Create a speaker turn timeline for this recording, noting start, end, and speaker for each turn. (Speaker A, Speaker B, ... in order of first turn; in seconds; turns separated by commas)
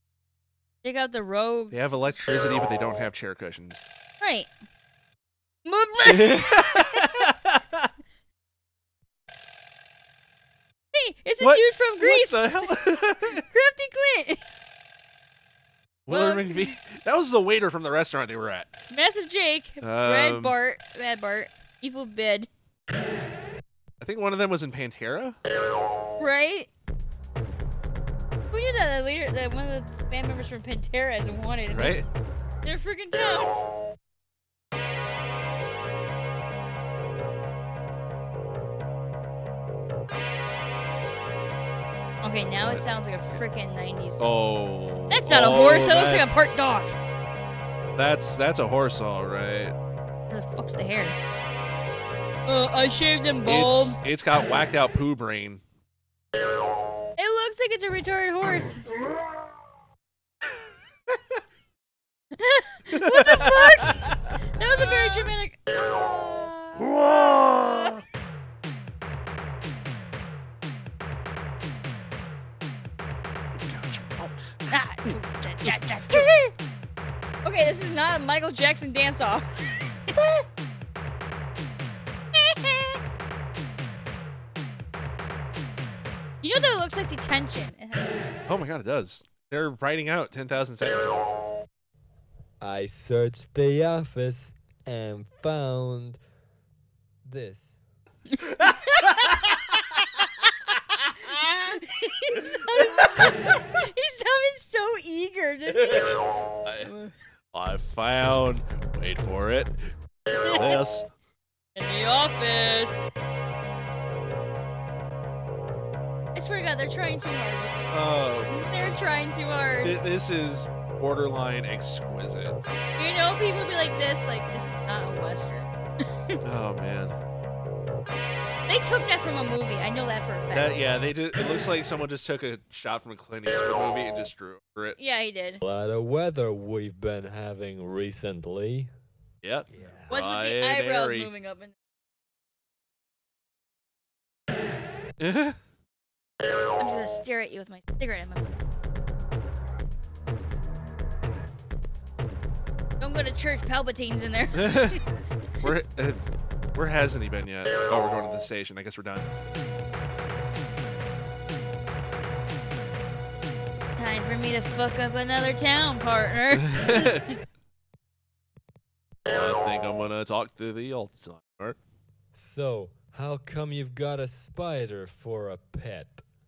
Speaker A: 0.8-1.8, Speaker B: 1.7-3.8, Speaker A: 4.2-4.5, Speaker A: 5.6-7.1, Speaker B: 6.0-7.9, Speaker A: 10.9-12.7, Speaker B: 11.4-13.4, Speaker A: 13.4-14.4, Speaker B: 16.1-18.7, Speaker A: 16.1-16.8, Speaker A: 18.9-22.5, Speaker B: 19.8-20.5, Speaker B: 24.0-25.4, Speaker A: 26.2-26.7, Speaker A: 28.5-32.0, Speaker B: 31.7-32.0, Speaker A: 32.6-33.5, Speaker A: 42.2-44.3, Speaker B: 44.2-46.3, Speaker A: 45.1-47.0, Speaker B: 48.0-49.7, Speaker A: 50.3-51.2, Speaker A: 52.5-54.0, Speaker B: 53.4-55.6, Speaker A: 57.2-58.8, Speaker A: 62.4-64.0, Speaker B: 62.9-64.1, Speaker A: 64.5-66.8, Speaker B: 66.8-68.0, Speaker B: 73.6-76.2, Speaker A: 74.7-76.5, Speaker A: 77.4-79.9, Speaker A: 82.3-83.0, Speaker A: 86.4-88.1, Speaker B: 88.5-91.2, Speaker C: 92.6-96.2, Speaker C: 97.2-97.8, Speaker A: 98.5-99.6, Speaker A: 101.6-106.2, Speaker B: 102.7-103.2, Speaker B: 105.7-106.9, Speaker A: 106.8-107.1, Speaker B: 107.5-109.8, Speaker A: 110.3-110.8, Speaker B: 110.5-111.1, Speaker A: 111.7-113.1, Speaker A: 116.3-120.0, Speaker B: 117.9-119.0, Speaker B: 119.8-122.6, Speaker A: 123.0-125.7, Speaker B: 126.4-127.2, Speaker A: 128.7-130.7, Speaker B: 130.5-135.0, Speaker A: 135.0-135.6, Speaker C: 135.6-138.9, Speaker B: 139.4-141.3, Speaker A: 140.1-141.7, Speaker B: 145.2-145.6, Speaker A: 146.8-148.6, Speaker A: 153.0-155.0, Speaker B: 154.5-155.0, Speaker B: 155.6-156.2, Speaker B: 156.7-159.3, Speaker A: 163.9-167.2, Speaker B: 166.5-167.2, Speaker B: 169.2-171.8, Speaker C: 172.3-176.2